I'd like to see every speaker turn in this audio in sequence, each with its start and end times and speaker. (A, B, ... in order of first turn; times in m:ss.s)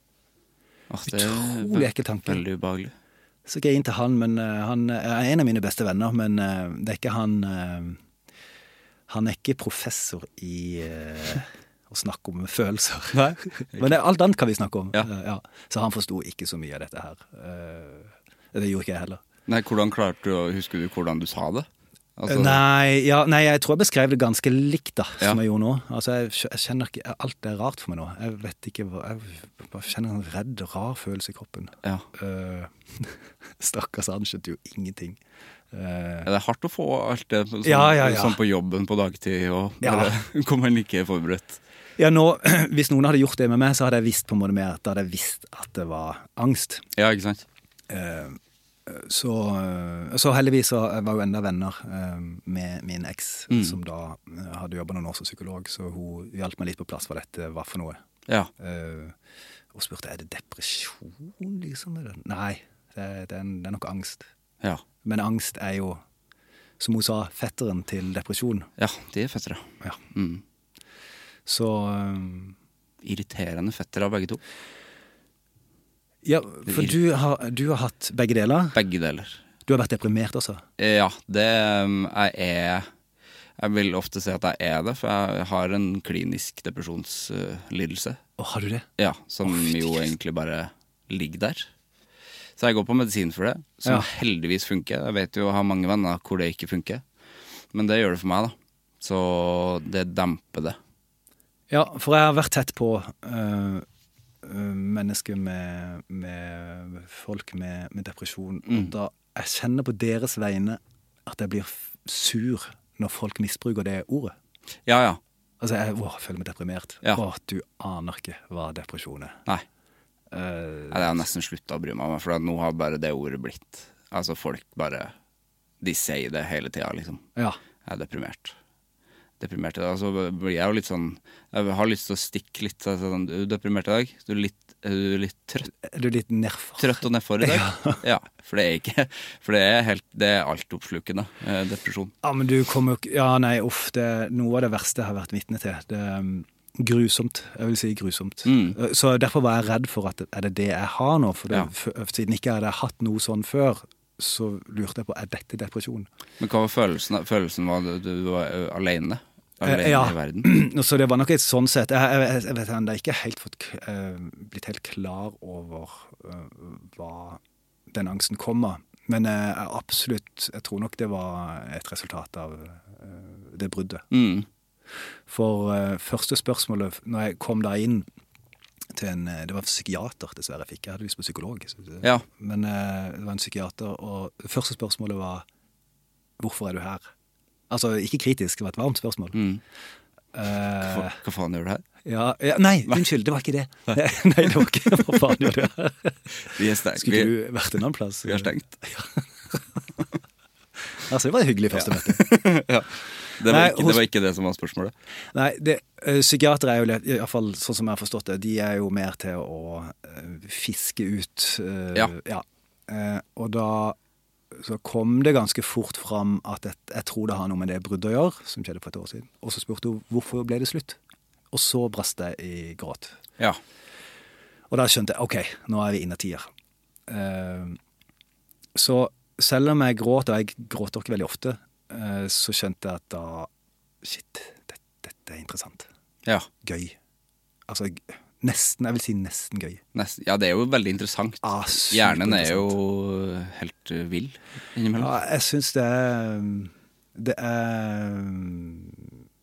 0:00.9-0:02.9 A
0:01.1-0:02.4 B
0:03.5-0:08.0 B
0:09.1-0:19.2 B
0:13.1-0:14.0 A
0:19.5-0:22.6 A
0:22.3-0:35.2 B
0:35.7-0:36.3 B
0:36.2-0:41.6 A
0:37.6-0:38.4 B
0:39.8-0:40.1 B
0:42.0-0:46.8 B
0:47.0-0:47.4 A
0:47.9-0:58.0 B
0:53.5-0:53.8 A
0:58.6-0:59.2 B
0:59.7-1:04.3 B
1:05.0-1:06.0 B
1:06.8-1:08.7 B
1:08.8-1:10.4 A
1:11.5-1:12.6 B
1:13.0-1:14.4 A
1:16.2-1:18.8 B
1:16.7-1:17.0 A
1:18.8-1:19.4 A
1:19.7-1:20.6 B
1:20.8-1:22.9 A
1:23.6-1:28.2 A
1:28.4-1:28.9 B
1:29.0-1:31.7 A
1:29.4-1:30.1 B
1:32.6-1:37.0 A
1:37.7-1:40.8 A
1:41.7-1:43.8 B
1:44.4-1:54.3 B
1:48.7-1:48.9 A
1:54.9-1:55.2 A
1:55.6-1:59.4 B
2:00.3-2:01.3 B
2:00.9-2:05.1 A
2:05.8-2:07.2 A
2:07.8-2:08.6 A
2:09.4-2:15.7 A
2:15.7-2:18.0 B
2:16.8-2:22.1 A
2:22.2-2:36.1 B
2:28.4-2:28.8 A
2:36.4-2:40.5 A
2:39.6-2:47.4 B
2:47.9-2:54.0 B
2:54.1-2:54.5 A
2:55.3-2:58.1 B
2:58.9-3:05.4 B
3:06.4-3:07.1 B
3:07.7-3:09.4 B
3:09.3-3:09.6 A
3:10.3-3:11.2 B
3:10.8-3:11.8 A
3:12.0-3:19.2 B
3:14.6-3:15.1 A
3:16.5-3:17.3 A
3:18.2-3:18.8 A
3:21.0-3:22.3 B
3:21.7-3:24.9 A
3:23.4-3:24.0 B
3:25.3-3:34.0 B
3:34.5-3:41.0 B
3:41.5-3:43.2 B
3:44.7-3:46.5 B
3:47.1-3:47.8 B
3:48.8-3:53.5 B
3:54.0-3:55.9 B
3:56.6-3:57.0 B
3:57.7-3:59.8 B
3:59.9-4:05.1 A
4:01.4-4:02.8 B
4:05.0-4:09.1 B